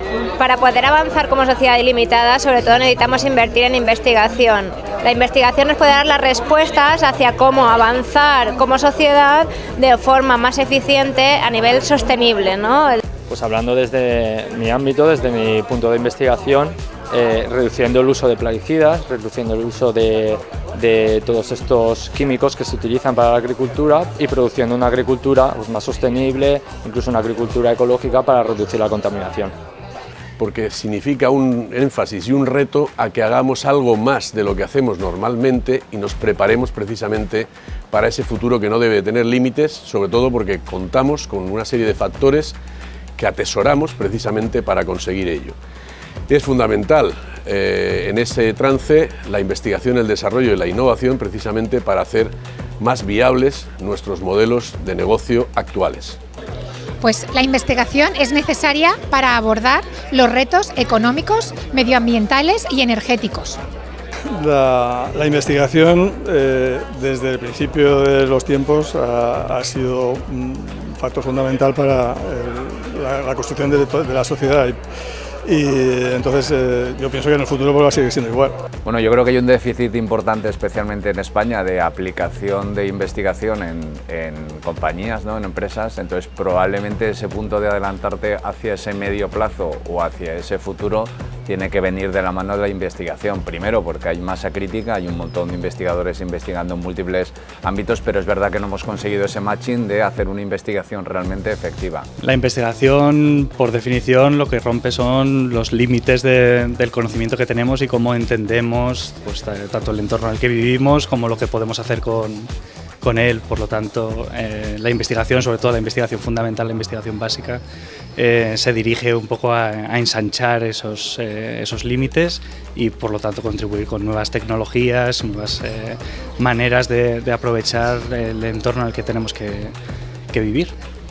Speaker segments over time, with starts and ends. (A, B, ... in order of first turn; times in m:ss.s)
0:00.4-0:13.0 A
0:13.3-0:29.5 B
0:30.4-0:42.6 C
0:43.2-0:45.6 C
0:46.3-0:56.2 C
0:57.0-1:03.6 D
1:04.4-1:14.8 E
1:15.4-1:18.6 E
1:18.8-1:42.1 F
1:42.2-1:52.5 G
1:53.0-1:57.6 G
1:58.2-2:09.7 G
2:10.3-2:10.7 G